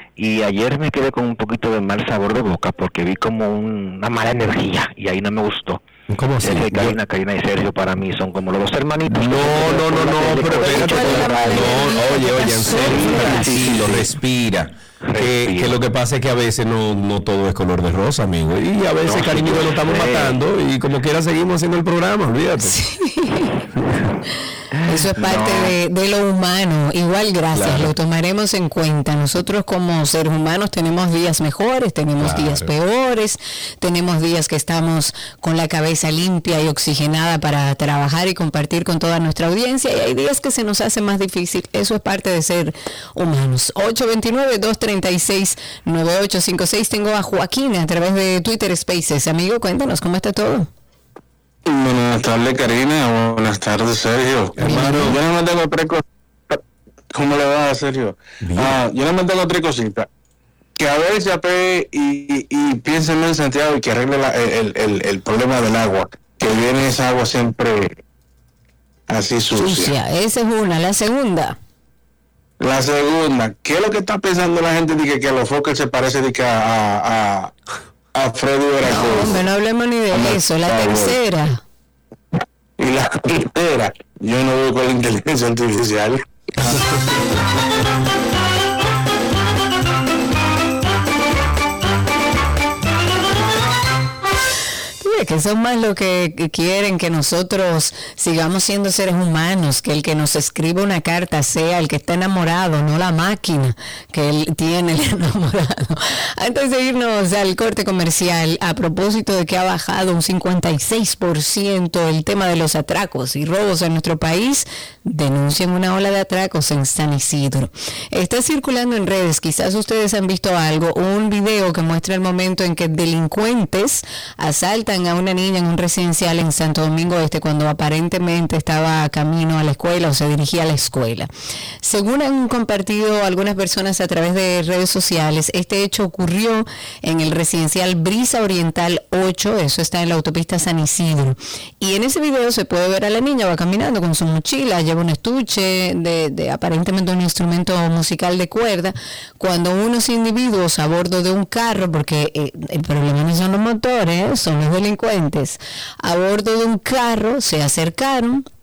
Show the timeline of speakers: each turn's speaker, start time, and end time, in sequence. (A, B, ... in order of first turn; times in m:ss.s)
0:00.2-0:05.8 A
0:06.1-0:07.0 B
0:06.4-0:14.2 A
0:09.1-0:22.8 B
0:10.4-0:13.7 C
0:15.0-0:15.8 A
0:19.0-0:20.4 A
0:22.6-0:23.5 C
0:24.9-0:50.7 C
0:27.5-0:27.9 B
0:32.2-0:32.7 B
0:51.7-0:56.6 D
0:54.6-0:55.2 B
0:54.6-0:55.2 C
0:57.1-1:00.1 D
0:58.4-0:58.8 B
1:00.8-1:08.0 D
1:09.1-1:09.9 D
1:09.5-1:11.6 C
1:12.6-1:17.5 D
1:18.2-1:19.4 D
1:18.8-1:21.6 C
1:20.1-1:21.2 D
1:22.8-1:26.8 D
1:35.0-2:11.3 C
2:11.8-2:38.4 C